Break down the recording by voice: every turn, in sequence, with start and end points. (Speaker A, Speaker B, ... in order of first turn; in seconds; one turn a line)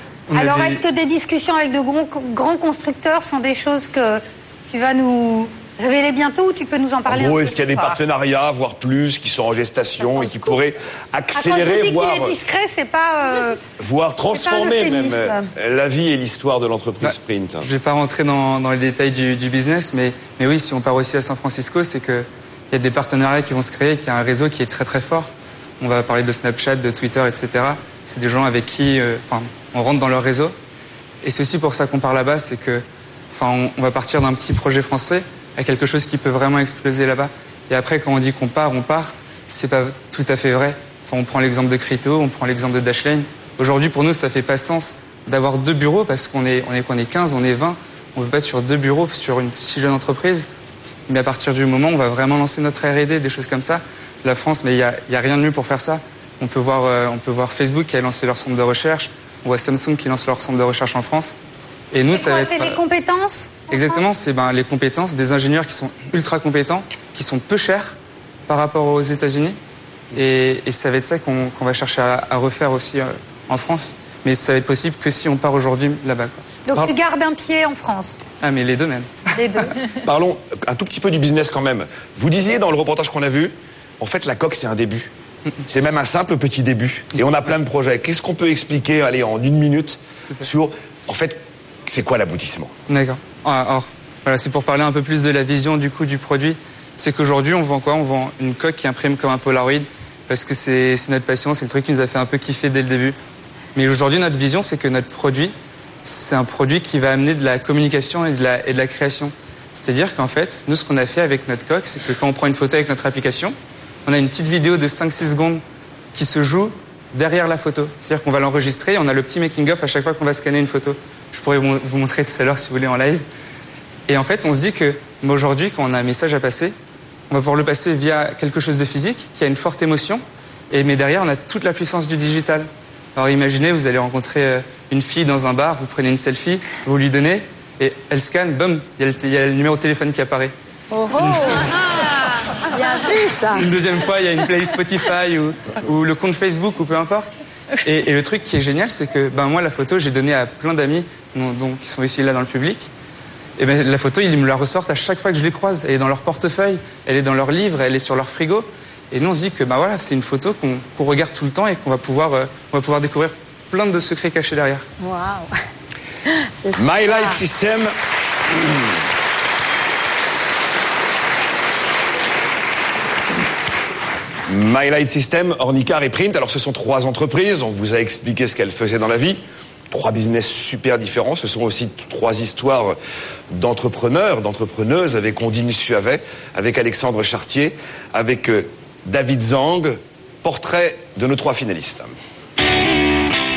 Speaker A: 0.3-0.8
Speaker B: 0.3-8.0
Speaker C: 7.1-12.4
Speaker B: 10.0-10.6
Speaker B: 11.3-13.6
Speaker C: 13.8-17.7
Speaker B: 14.3-15.5
Speaker A: 17.0-30.6
Speaker A: 31.2-50.5
Speaker A: 51.1-61.3
Speaker A: 61.9-62.8
Speaker B: 62.1-64.0
Speaker A: 63.7-68.0
Speaker A: 68.5-69.6
Speaker A: 70.1-76.9
Speaker B: 76.7-78.2
Speaker A: 78.4-79.2
Speaker B: 79.3-79.7
Speaker C: 80.0-85.1
Speaker C: 85.7-92.7
Speaker A: 92.9-103.2
Speaker A: 103.8-113.5
Speaker A: 114.1-115.6
Speaker A: 116.1-123.2
Speaker A: 124.1-126.8
Speaker A: 127.3-140.5
Speaker D: 140.9-141.7
Speaker D: 142.7-143.7
Speaker A: 143.6-152.9
Speaker A: 153.6-164.9
Speaker D: 165.0-165.5
Speaker D: 166.6-167.4
Speaker C: 166.8-167.9
Speaker C: 174.5-183.0
Speaker C: 183.5-192.1